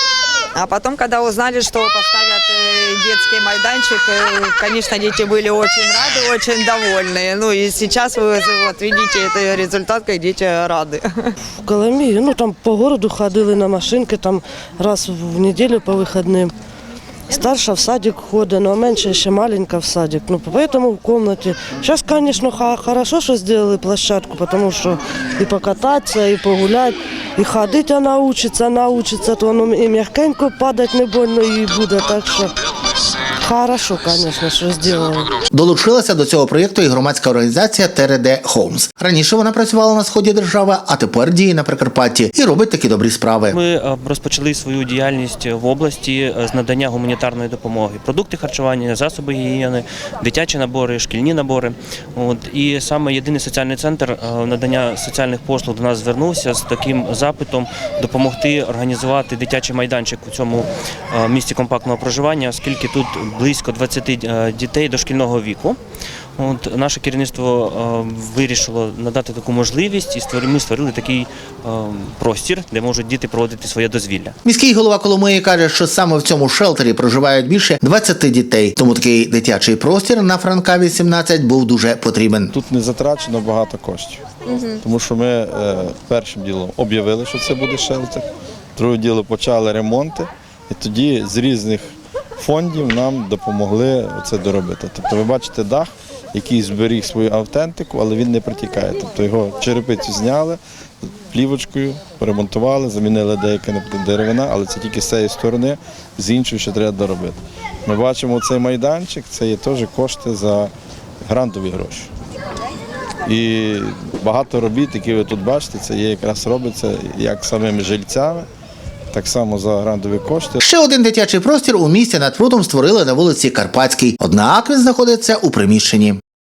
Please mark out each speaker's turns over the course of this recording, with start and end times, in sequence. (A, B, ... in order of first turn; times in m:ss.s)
0:00.5-0:11.3 A
0:11.6-0:16.5 B
0:17.3-0:32.5 B
0:33.4-0:35.4 B
0:35.5-0:43.6 C
0:43.5-1:05.8 D
1:06.4-1:14.4 D
1:14.4-1:22.6 C
1:22.5-1:50.7 E
1:51.3-1:52.1 E
1:53.2-1:58.5 E
1:59.1-2:00.6 E
2:00.6-2:06.2 C